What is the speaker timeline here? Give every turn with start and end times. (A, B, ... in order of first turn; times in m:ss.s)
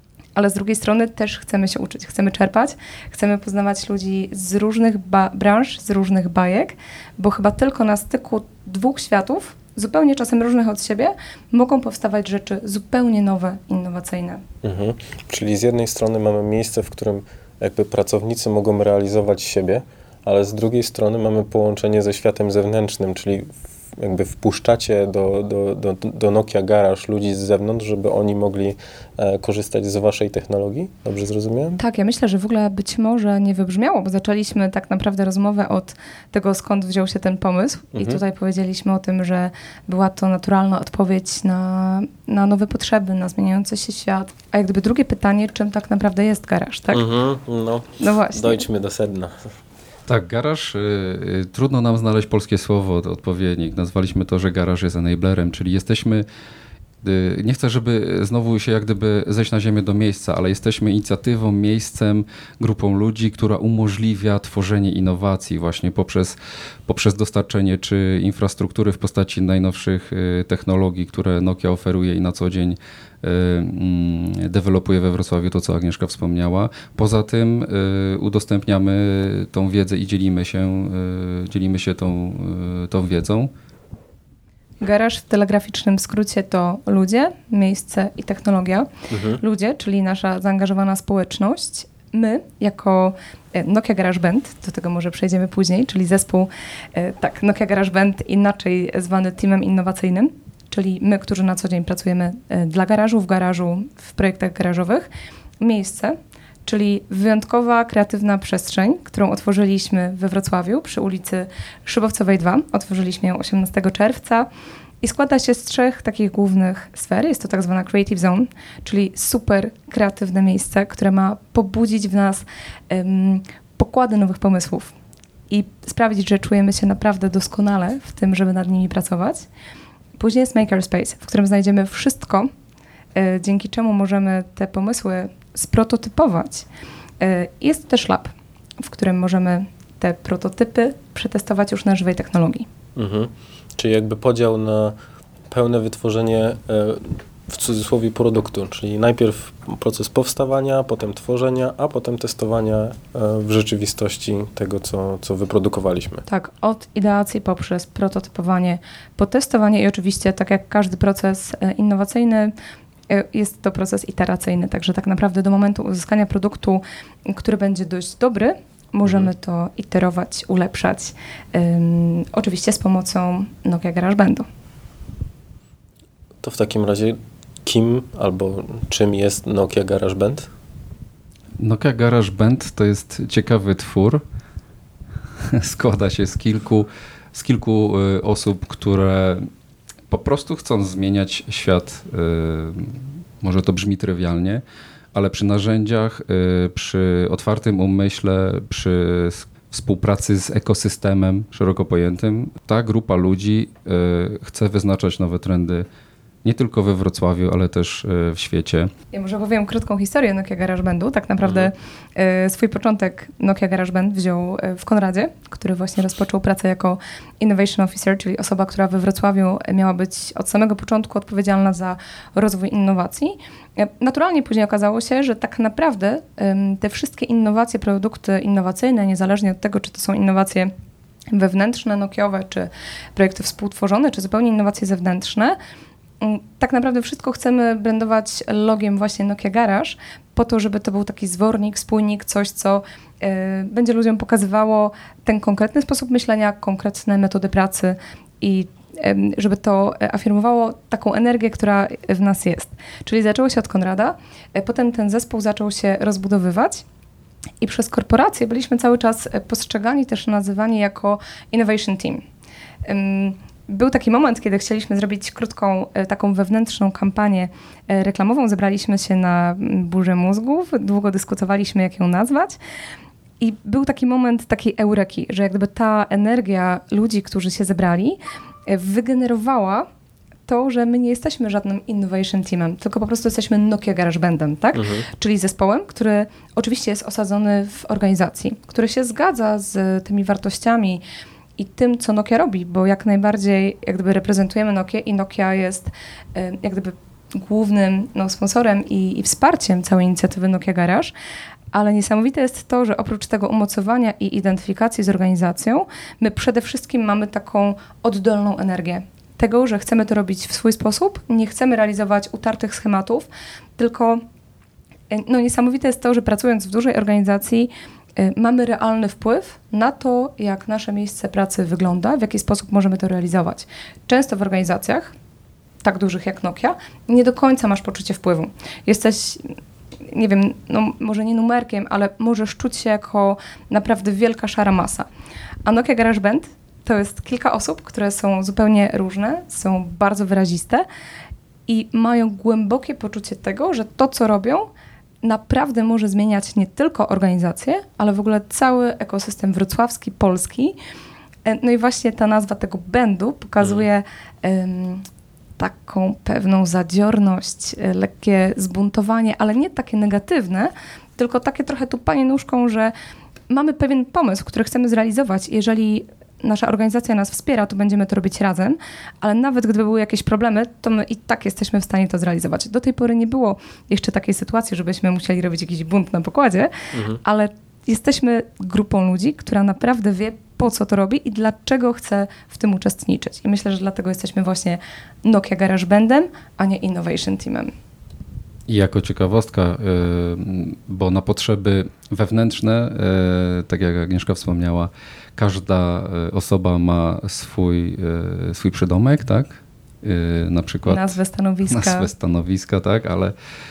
0:00.4-0:14.4 A
0:14.6-0:31.8 B
0:31.8-0:47.0 A
0:37.9-0:38.2 B
0:46.9-0:49.5 B
0:48.0-0:48.6 A
0:50.1-0:56.2 C
0:57.0-1:06.4 C
1:06.9-1:23.5 C
1:24.8-1:45.1 A
1:29.1-1:29.4 B
1:45.6-1:54.5 A
1:55.0-2:04.9 A
2:05.5-2:09.5 A
2:10.2-2:12.5 A
2:13.2-2:16.7 A
2:17.2-2:22.7 A
2:23.0-2:25.0 B
2:25.5-2:36.2 B
2:36.3-2:42.5 A
2:43.1-2:54.5 A
2:56.4-3:00.5 B
3:01.6-3:04.2 C
3:05.4-3:09.5 C
3:10.1-3:14.6 C
3:15.1-3:25.8 C
3:26.4-3:28.9 C
3:29.1-3:50.7 A
3:31.4-3:31.7 B
3:51.3-3:55.6 A
3:56.2-4:16.8 A
4:17.6-4:22.2 A
4:22.9-4:32.6 A
4:33.4-4:39.9 A
4:40.5-4:51.0 A
4:44.8-4:45.1 B
4:51.6-5:01.1 A
5:01.7-5:14.2 A
5:15.1-5:25.1 A
5:25.8-5:29.6 A
5:30.1-5:35.1 A
5:35.7-5:40.8 A
5:41.7-5:44.7 A
5:45.2-5:50.8 A
5:51.5-5:55.0 A
5:55.6-6:02.9 A
6:03.5-6:27.7 A
6:16.9-6:17.2 B
6:28.7-6:41.2 C
6:40.9-6:42.1 A
6:41.7-6:43.3 C